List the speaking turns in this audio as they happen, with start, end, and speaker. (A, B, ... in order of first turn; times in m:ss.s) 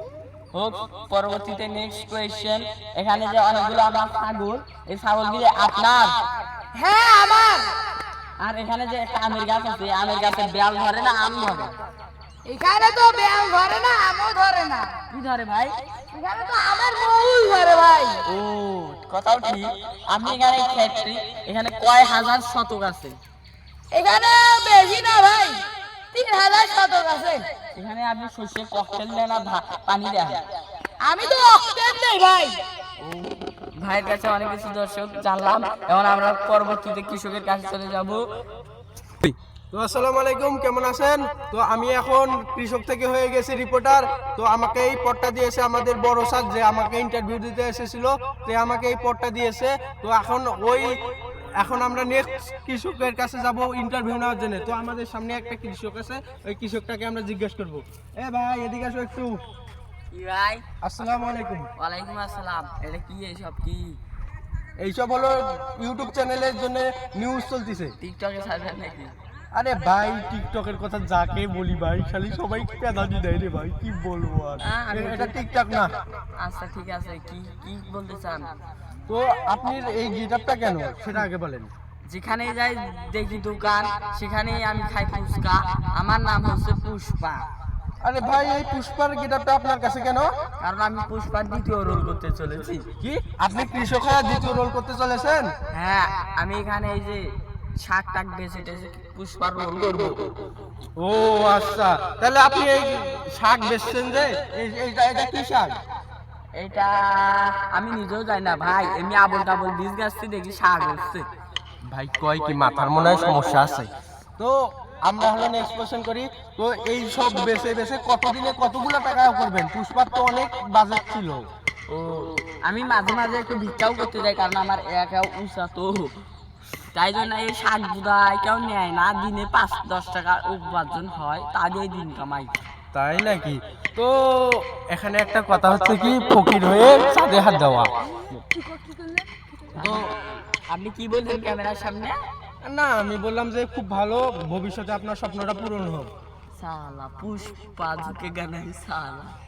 0:00.5-0:06.1 A
0:06.7-0:07.7 B
0:08.4-0:11.8 A
0:12.4-0:15.0 B
0:15.1-0:15.8 A
0:16.1-0:18.2 B
0:18.2-0:23.2 A
0:23.9-0:27.5 B
0:27.7-0:30.4 A
0:31.0-0:32.6 B
0:33.0-0:38.2 A
0:39.2-0:51.0 C
0:51.6-0:59.4 C
1:00.1-1:00.6 A
1:00.8-1:01.7 C
1:01.8-1:04.0 A
1:04.8-1:07.9 C
1:08.0-1:09.1 A
1:09.5-1:15.9 C
1:14.6-1:15.3 A
1:16.4-1:18.5 A
1:19.1-1:21.7 C
1:22.1-1:27.4 A
1:28.0-1:30.3 C
1:30.6-1:32.8 A
1:33.0-1:35.5 C
1:35.7-1:37.2 A
1:37.8-1:40.3 A
1:41.0-1:45.8 C
1:46.5-1:51.3 A
1:51.8-2:01.4 C
2:01.9-2:06.2 A
2:06.9-2:12.5 A
2:12.9-2:18.4 C
2:18.5-2:19.4 B
2:19.8-2:20.1 A
2:19.8-2:20.1 C
2:20.7-2:22.2 A
2:22.6-2:26.1 C
2:26.6-2:29.4 A